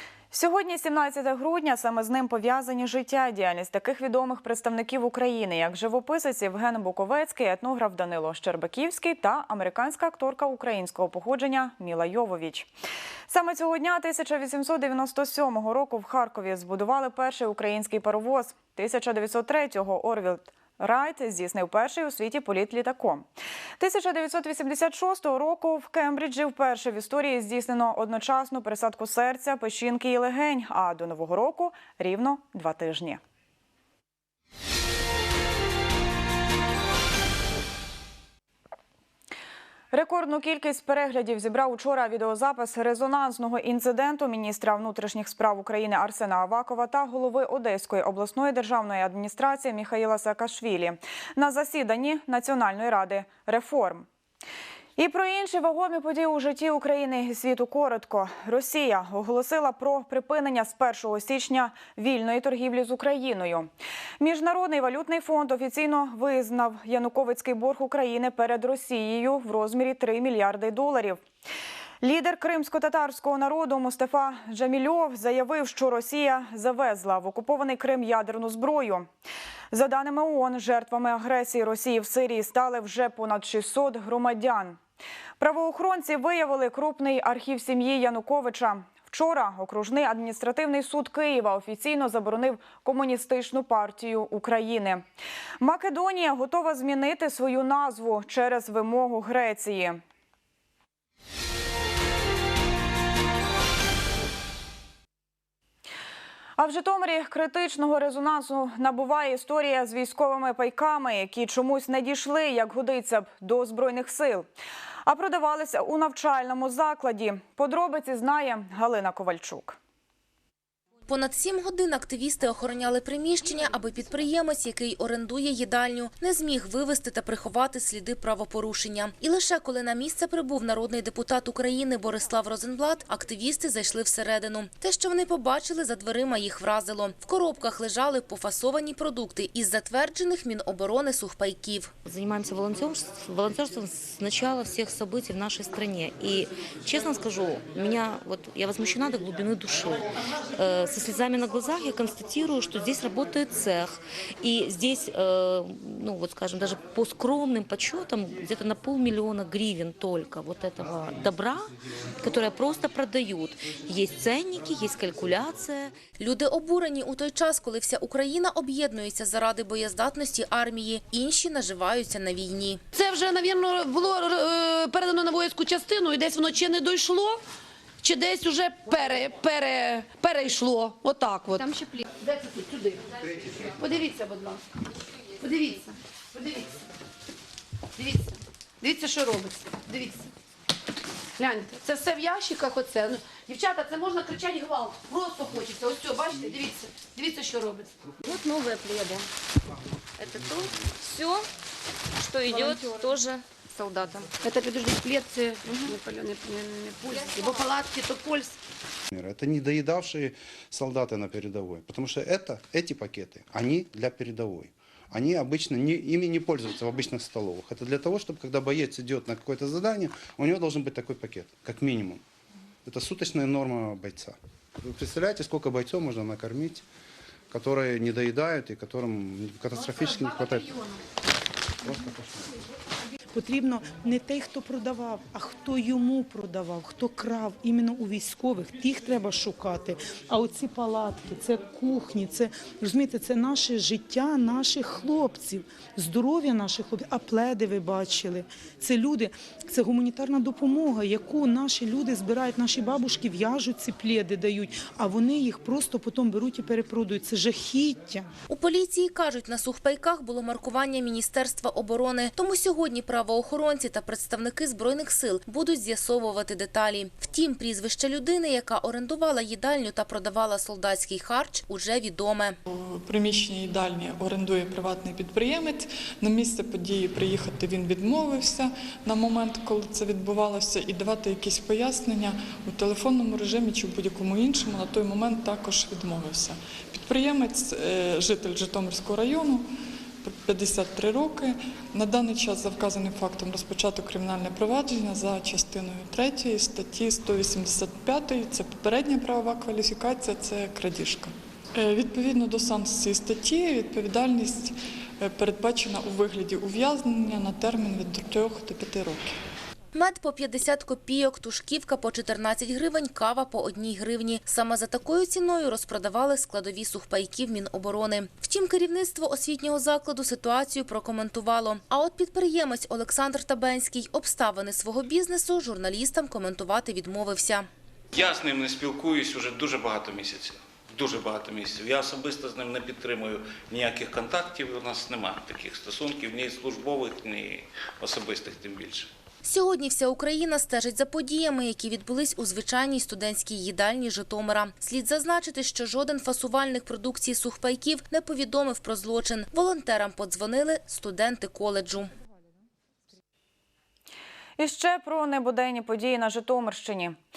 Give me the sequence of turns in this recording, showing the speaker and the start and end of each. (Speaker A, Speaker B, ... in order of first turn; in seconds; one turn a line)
Speaker A: 0.3-12.7
Speaker A: 13.3-23.3
Speaker A: 23.8-33.2
Speaker A: 39.9-54.0
Speaker A: 55.0-71.2
Speaker A: 72.0-79.1
Speaker A: 79.7-84.8
Speaker A: 85.4-95.0
Speaker A: 95.6-100.0
Speaker A: 106.6-114.5
Speaker A: 115.0-119.8
Speaker B: 121.1-141.9
Speaker C: 142.0-165.9
Speaker B: 166.2-172.8
Speaker D: 172.9-177.4
Speaker D: 178.0-184.7
Speaker D: 185.2-186.9
Speaker D: 187.9-190.3
Speaker D: 191.4-197.9
Speaker E: 198.2-199.3
Speaker E: 200.2-201.4
Speaker E: 202.2-204.4
Speaker D: 202.4-203.0
Speaker D: 204.4-208.6
Speaker E: 205.6-205.9
Speaker E: 207.2-207.5
Speaker F: 209.1-222.2
Speaker F: 222.8-226.8
Speaker F: 227.5-230.9
Speaker F: 231.8-232.5
Speaker G: 233.3-258.3
Speaker B: 258.5-272.6
Speaker H: 272.6-289.7
Speaker H: 290.2-309.4
Speaker B: 309.9-327.7
Speaker I: 328.1-339.1
Speaker B: 339.4-352.1
Speaker A: 354.6-357.2